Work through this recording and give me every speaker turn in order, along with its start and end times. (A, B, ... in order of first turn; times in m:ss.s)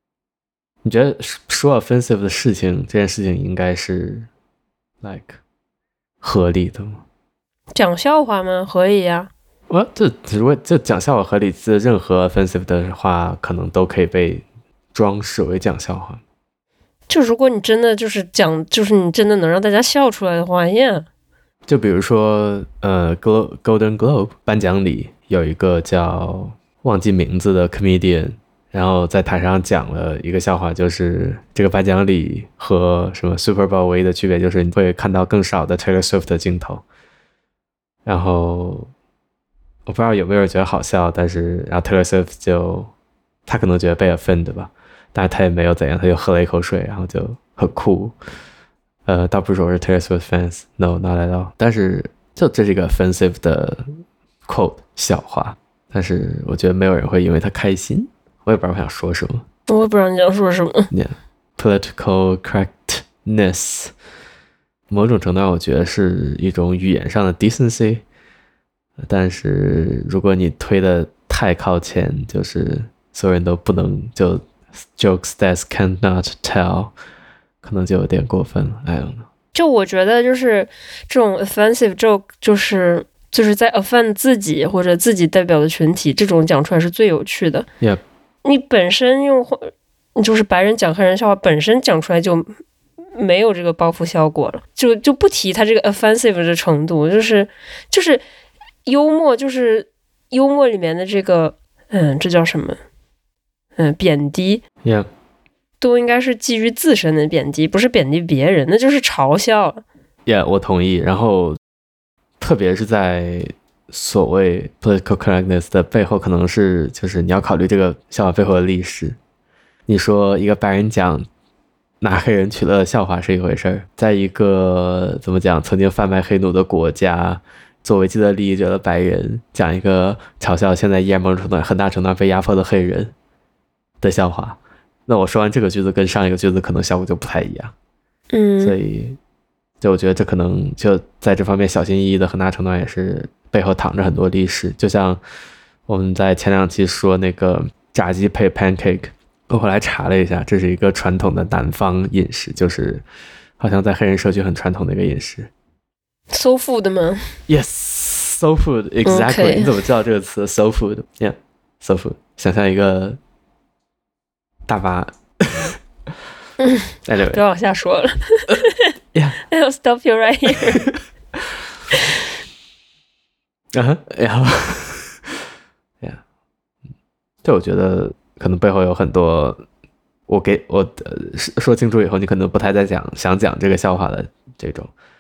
0:00.8-0:04.3 A
0:05.0-0:05.4 A
0:06.2-0:07.0 A
0:07.8-0:09.3 B
0:09.7-0:16.2 A
0:17.1-0:21.1 B
0:21.7-0:36.8 A
0:38.1-0:38.9 A
0:39.9-0:42.9 A
0:43.5-0:48.2 A
0:49.1-0:53.9 A
0:54.5-0:59.4 A
0:59.7-1:00.9 B
1:00.9-1:03.9 A
1:04.9-1:08.0 A
1:09.0-1:14.4 A
1:15.0-1:16.9 A
1:17.6-1:19.3 A
1:19.5-1:27.7 B
1:28.4-1:32.5 B
1:33.2-1:38.2 B
1:38.9-1:42.8 B
1:43.8-1:44.6 B
1:45.8-1:49.8 B
1:50.3-1:51.6 A
1:52.4-1:59.2 A
1:59.9-2:01.3 A
2:02.0-2:13.1 A
2:14.0-2:17.7 A
2:18.3-2:18.8 B
2:18.6-2:19.2 A
2:19.8-2:25.2 A
2:25.9-2:33.0 A
2:33.6-2:35.5 A
2:36.3-2:37.2 B
2:37.5-2:43.2 A
2:39.0-2:39.7 B
2:44.7-2:45.8 A
2:46.6-2:48.9 B
2:47.1-2:47.4 A
2:49.5-2:50.9 B
2:50.9-2:51.5 A
2:53.7-2:55.4 A
2:57.4-2:59.6 A
3:00.3-3:04.9 A